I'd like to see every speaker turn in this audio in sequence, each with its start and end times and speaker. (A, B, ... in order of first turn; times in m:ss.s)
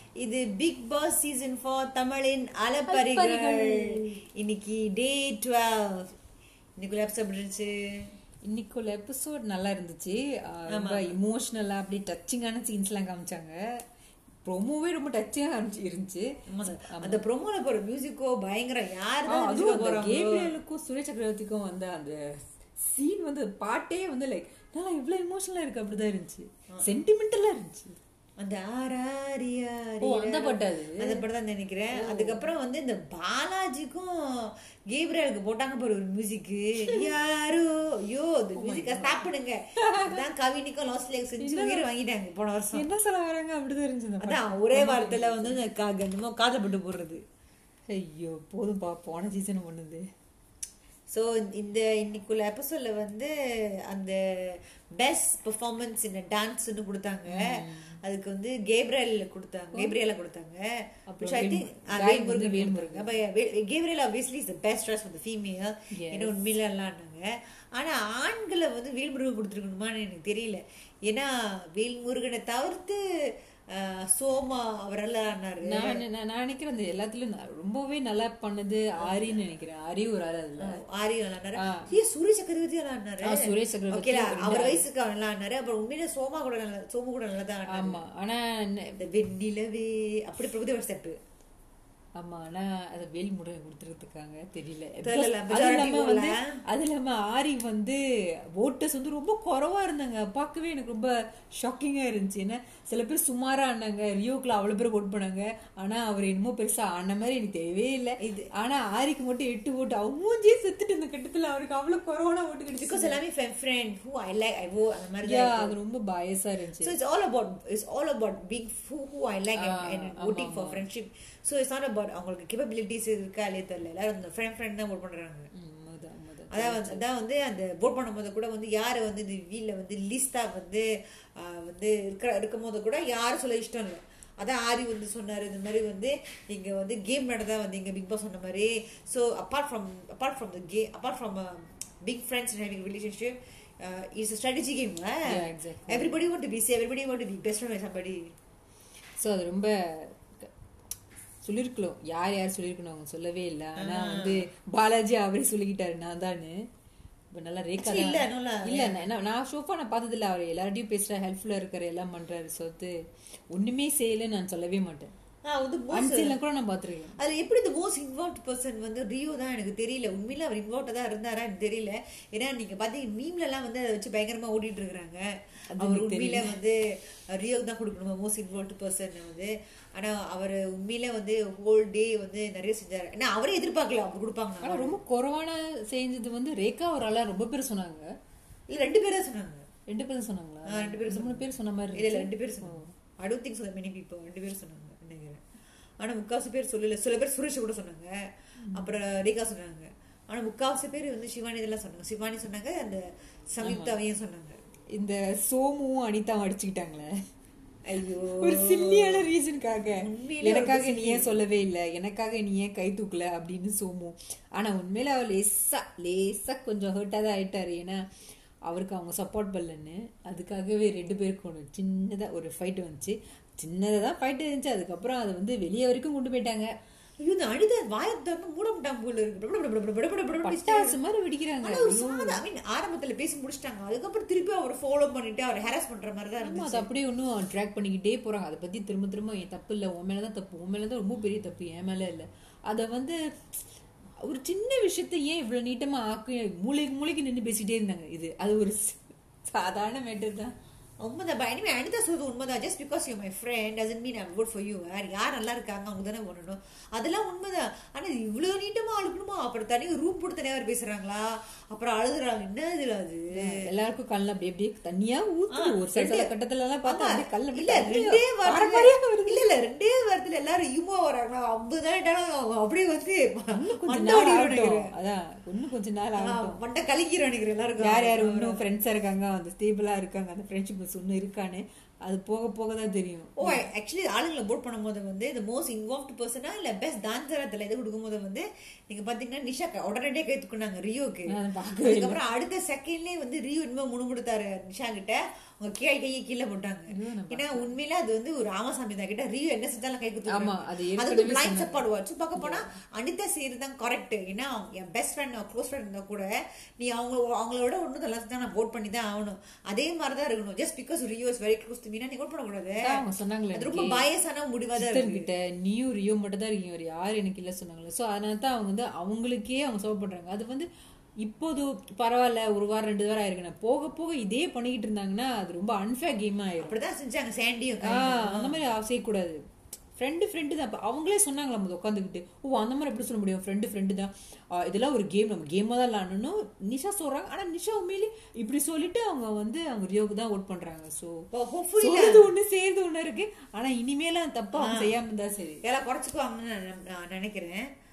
0:00.2-0:06.1 A
0:02.9-0:04.2 B
0:06.8-0:07.7 A
0:08.4-0:13.6 B
0:10.7-0:11.2 A
0:14.4-0:17.2 B
0:16.5-0:20.5 A
0:19.3-0:22.2 B
0:22.8-0:28.0 B
0:28.4-0:42.8 A
0:30.0-0:31.2 B
0:31.9-0:32.5 B
0:38.6-0:40.2 B
0:41.4-0:41.8 B
0:42.7-0:45.6 B
0:44.2-0:47.2 A
0:47.9-0:50.0 B
0:51.1-0:53.3 A
0:53.9-1:13.0 A
0:57.3-0:58.0 B
1:01.1-1:03.2 B
1:05.9-1:06.3 B
1:13.7-1:16.0 A
1:15.6-1:20.8 B
1:19.0-1:19.4 A
1:20.6-1:28.0 A
1:21.6-1:21.9 B
1:23.2-1:24.8 B
1:27.7-1:29.0 B
1:29.0-1:31.2 A
1:32.2-1:38.0 B
1:35.0-1:36.5 A
1:38.6-1:53.2 B
1:48.2-1:48.5 A
1:52.8-1:55.8 A
1:55.2-1:56.9 B
1:56.8-2:05.5 A
1:59.6-2:00.8 B
2:05.6-2:07.0 B
2:06.5-2:10.8 A
2:11.4-2:25.4 A
2:25.3-2:26.2 B
2:25.9-2:28.3 A
2:29.2-2:30.5 B
2:31.4-2:36.6 B
2:33.8-2:34.4 A
2:37.3-2:42.9 B
2:37.8-2:39.0 A
2:43.5-2:45.1 B
2:45.4-2:46.4 A
2:45.9-2:47.1 B
2:47.2-2:55.2 A
2:55.7-2:56.5 B
2:55.8-2:56.8 A
2:57.3-3:05.0 A
3:04.6-3:08.1 B
3:08.7-3:09.6 A
3:09.9-3:12.9 B
3:10.7-3:15.4 A
3:16.0-3:24.6 A
3:18.6-3:18.9 B
3:23.6-3:23.9 B
3:24.9-3:27.1 B
3:27.9-3:29.2 A
3:28.3-3:38.0 B
3:30.0-3:31.3 A
3:38.7-3:46.7 B
3:47.2-3:51.0 A
3:50.4-3:52.4 B
3:51.6-3:56.9 A
3:56.4-4:03.2 B
4:04.2-4:10.5 B
4:11.0-4:23.5 A
4:23.3-4:29.4 B
4:25.5-4:26.3 A
4:26.8-4:34.9 A
4:33.5-4:36.6 B
4:36.2-4:38.6 A
4:37.8-4:43.6 B
4:43.4-4:51.3 A
4:51.3-4:52.2 B
4:51.8-5:06.2 A
4:56.9-4:57.7 B
5:00.3-5:01.8 B
5:02.4-5:02.7 B
5:06.8-5:15.3 A
5:12.8-5:14.0 B
5:14.8-5:20.7 B
5:21.2-5:26.8 B
5:26.6-5:28.6 A
5:27.8-5:29.4 B
5:30.0-5:41.2 B
5:41.3-5:42.3 A
5:41.8-5:45.6 B
5:44.6-5:44.9 A
5:45.6-5:47.7 A